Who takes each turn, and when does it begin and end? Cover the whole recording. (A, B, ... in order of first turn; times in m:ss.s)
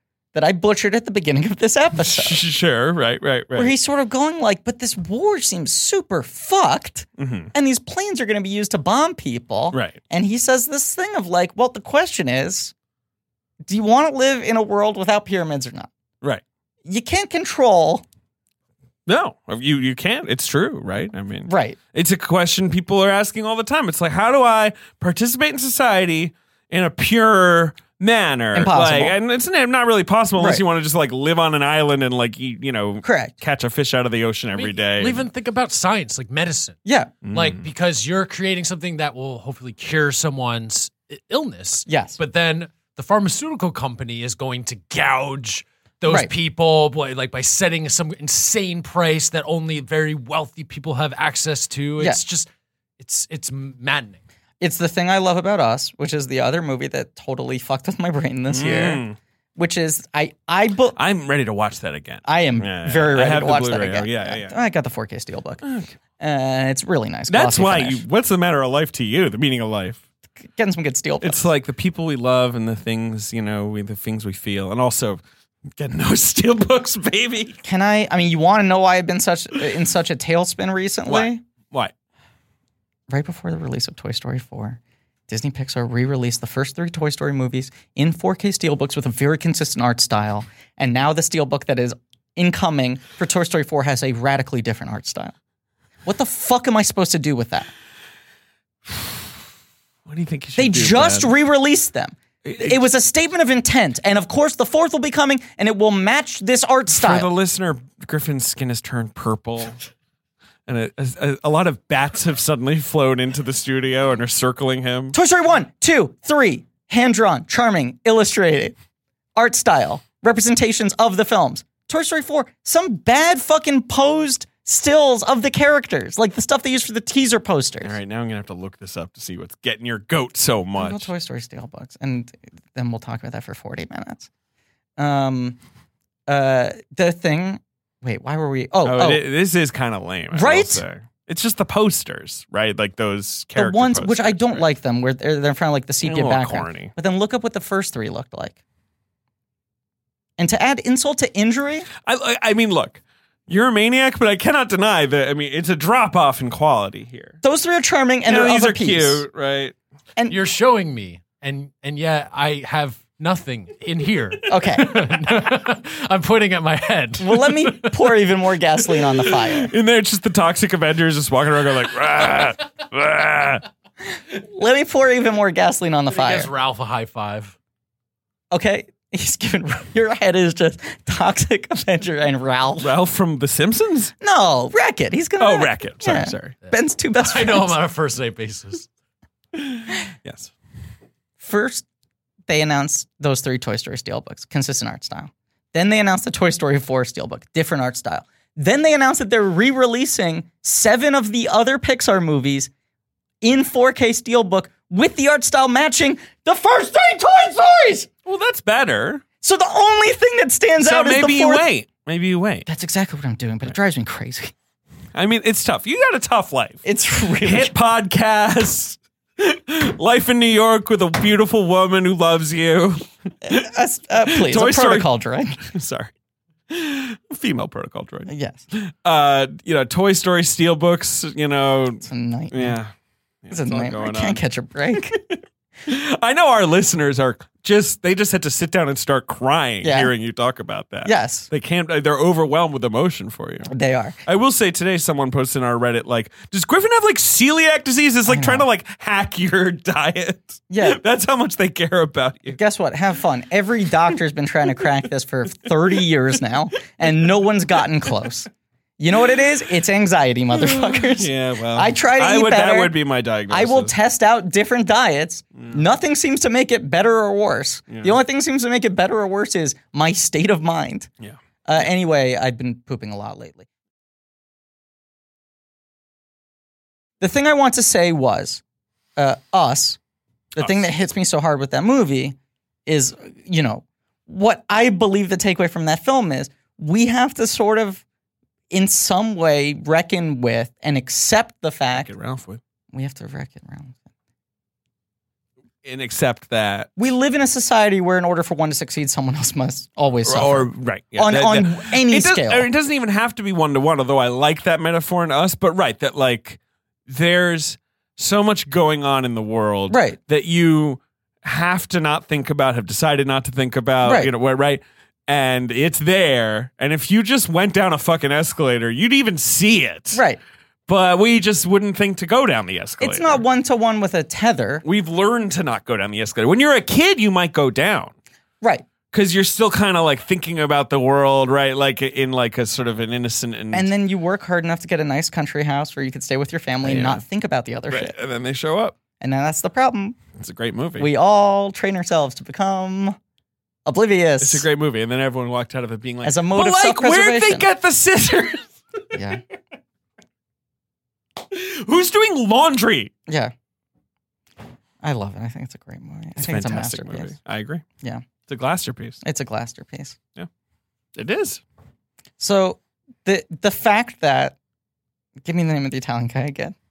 0:00.3-0:02.4 A
0:02.0-0:03.7 B
0:03.5-0:12.7 A
0:07.2-0:07.5 B
0:09.7-0:10.0 B
0:13.7-0:15.9 A
0:16.9-0:18.0 A
0:19.1-0:35.3 B
0:21.5-0:21.8 A
0:28.5-0:29.2 A
0:30.4-0:30.6 A
0:33.0-0:33.4 A
0:34.6-0:36.8 C
0:36.8-0:37.2 A
0:37.2-0:37.7 B
0:37.3-0:52.5 C
0:41.9-0:42.2 A
0:53.0-0:54.2 C
0:54.6-0:59.0 A
0:58.5-0:59.2 B
0:59.6-1:01.0 A
1:01.0-1:04.6 B
1:02.2-1:05.6 A
1:05.6-1:06.0 B
1:06.2-1:08.0 A
1:07.3-1:10.0 B
1:10.4-1:11.5 A
1:11.2-1:15.2 B
1:15.7-1:17.6 B
1:17.6-1:21.4 A
1:21.1-1:21.9 B
1:23.1-1:35.4 A
1:36.0-1:37.7 A
1:38.9-1:39.3 B
1:40.0-1:41.3 B
1:40.6-1:47.3 A
1:42.4-1:42.9 B
1:46.9-1:49.8 B
1:50.7-1:55.2 B
1:55.1-1:58.8 A
1:59.4-2:08.0 A
2:07.8-2:11.1 B
2:10.8-2:14.3 A
2:15.0-2:15.6 A
2:16.3-2:19.2 A
2:18.8-2:24.7 B
2:20.3-2:20.8 A
2:23.6-2:28.6 A
2:26.0-2:26.9 B
2:30.4-2:31.9 A
2:32.0-2:37.4 B
2:37.4-2:39.2 A
2:38.2-2:39.8 B
2:40.3-2:48.2 C
2:44.5-2:45.1 A
2:47.2-2:49.7 A
2:49.4-2:53.6 B
2:54.3-2:56.5 A
2:56.1-2:57.5 C
2:58.5-3:02.9 A
3:02.8-3:04.1 B
3:04.2-3:07.8 A
3:05.4-3:06.6 B
3:07.2-3:08.9 C
3:09.5-3:10.5 B
3:11.4-3:11.9 A
3:12.5-3:22.7 A
3:23.4-3:28.1 A
3:28.3-3:29.2 B
3:29.4-3:31.6 A
3:30.8-3:32.7 B
3:32.7-3:34.5 A
3:35.1-3:36.8 B
3:36.8-3:37.7 A
3:37.4-3:43.6 B
3:43.4-3:45.7 A
3:44.3-3:45.1 B
3:45.6-3:46.1 B
3:46.7-3:52.9 B
3:48.3-3:48.6 A
3:52.0-3:52.8 A
3:53.4-4:03.7 B
3:53.5-3:55.2 A
3:59.8-4:00.1 A
4:01.0-4:01.5 A
4:03.7-4:04.2 A
4:04.3-4:12.6 B
4:08.3-4:08.6 A
4:10.7-4:11.0 A
4:12.5-4:23.0 A
4:20.6-4:24.0 B
4:23.5-4:31.1 A
4:27.9-4:28.2 B
4:31.6-4:33.7 A
4:37.2-4:38.6 A
4:39.2-4:40.0 A
4:40.6-4:48.0 A
4:40.6-4:40.9 B
4:48.7-4:52.1 A
4:52.0-4:52.6 B
4:52.9-4:54.0 A
4:55.8-4:56.9 B
4:57.0-5:02.7 A
5:00.3-5:20.2 B
5:09.9-5:10.2 A
5:14.0-5:14.3 A
5:20.1-5:20.4 A
5:20.9-5:23.4 B
5:23.0-5:24.8 A
5:24.8-5:28.1 B
5:29.1-5:33.9 B
5:33.7-5:38.2 A
5:36.8-5:37.2 B
5:37.9-5:39.0 B
5:39.2-5:40.2 A
5:40.4-5:41.1 B
5:41.0-5:43.2 A
5:43.9-5:44.6 A
5:44.4-5:49.2 B
5:46.2-5:47.7 A
5:49.1-5:49.4 A
5:51.5-5:53.1 B
5:53.3-5:53.5 A
5:55.0-5:57.3 A
5:56.4-5:57.8 B
5:58.5-5:59.2 B
5:59.2-6:00.2 A
6:01.2-6:01.6 B
6:02.4-6:04.6 A
6:05.4-6:06.8 A